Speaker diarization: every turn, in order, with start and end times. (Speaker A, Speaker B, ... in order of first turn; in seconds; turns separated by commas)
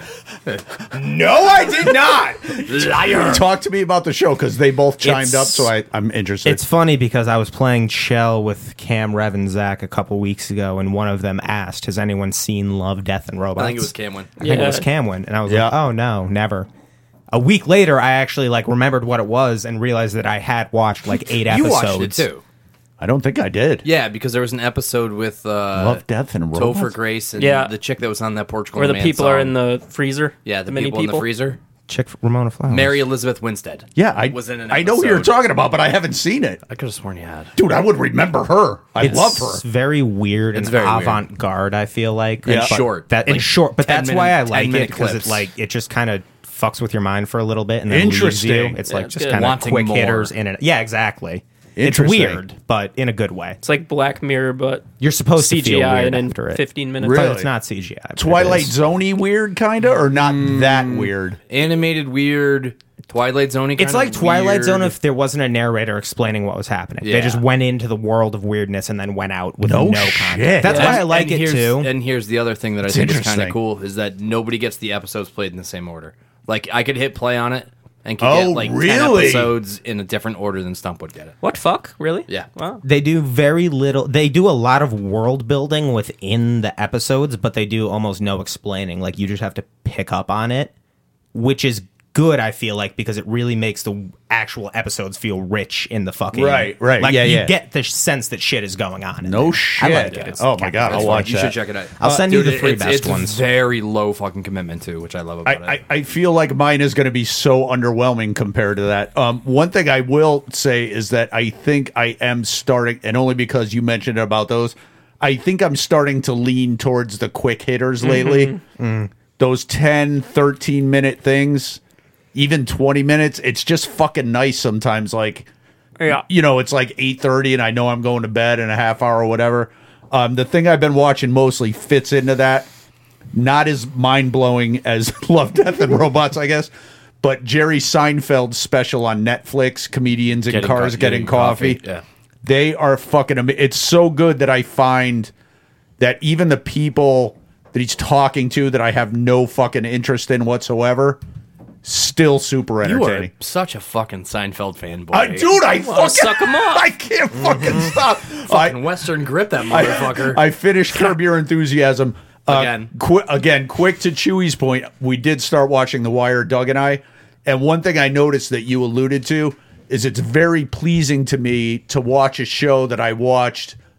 Speaker A: 0.5-3.5, Speaker B: 1.3-6.6, Speaker C: 5.0-5.7, Speaker C: 6.4-16.7, Speaker A: 13.6-14.4, Speaker D: 14.4-14.8, Speaker B: 15.5-15.7, Speaker C: 17.3-22.3, Speaker A: 21.4-22.4, Speaker B: 23.0-23.9, Speaker A: 23.8-26.0, Speaker B: 25.7-26.9, Speaker A: 26.5-29.6, Speaker D: 27.4-27.7, Speaker D: 28.7-31.2, Speaker A: 30.4-31.6, Speaker C: 31.9-33.0, Speaker A: 32.7-35.4, Speaker B: 34.0-36.6, Speaker A: 36.7-37.5, Speaker B: 37.5-39.6, Speaker C: 39.0-53.6, Speaker A: 40.5-41.2, Speaker B: 42.5-42.8, Speaker A: 42.5-45.5, Speaker B: 47.9-48.8, Speaker D: 48.9-49.4, Speaker A: 49.3-50.3, Speaker B: 51.8-52.4, Speaker D: 53.6-54.9, Speaker C: 55.0-58.7, Speaker D: 55.4-57.3, Speaker B: 57.0-57.5, Speaker B: 58.2-61.4, Speaker A: 60.5-64.9, Speaker C: 63.8-71.9, Speaker A: 67.0-67.4, Speaker B: 69.6-71.0, Speaker A: 70.6-81.3, Speaker B: 72.8-73.6, Speaker B: 78.2-79.5, Speaker D: 81.4-82.8, Speaker C: 82.8-90.7, Speaker C: 91.3-101.3, Speaker B: 96.3-97.5, Speaker B: 99.2-102.2, Speaker A: 99.8-105.8, Speaker C: 102.0-103.4, Speaker B: 105.4-118.6, Speaker D: 118.0-118.6, Speaker C: 118.8-119.1, Speaker B: 119.4-121.8, Speaker B: 122.3-125.5, Speaker D: 126.0-126.2, Speaker B: 126.1-132.7, Speaker B: 133.3-136.7, Speaker B: 137.2-141.8, Speaker A: 140.5-142.0, Speaker B: 142.4-145.3, Speaker B: 146.0-151.2, Speaker B: 151.8-153.3, Speaker A: 152.8-155.5, Speaker B: 155.1-158.8, Speaker D: 155.7-156.8, Speaker C: 157.5-157.9, Speaker A: 158.5-160.4, Speaker B: 159.7-173.8, Speaker A: 162.5-162.9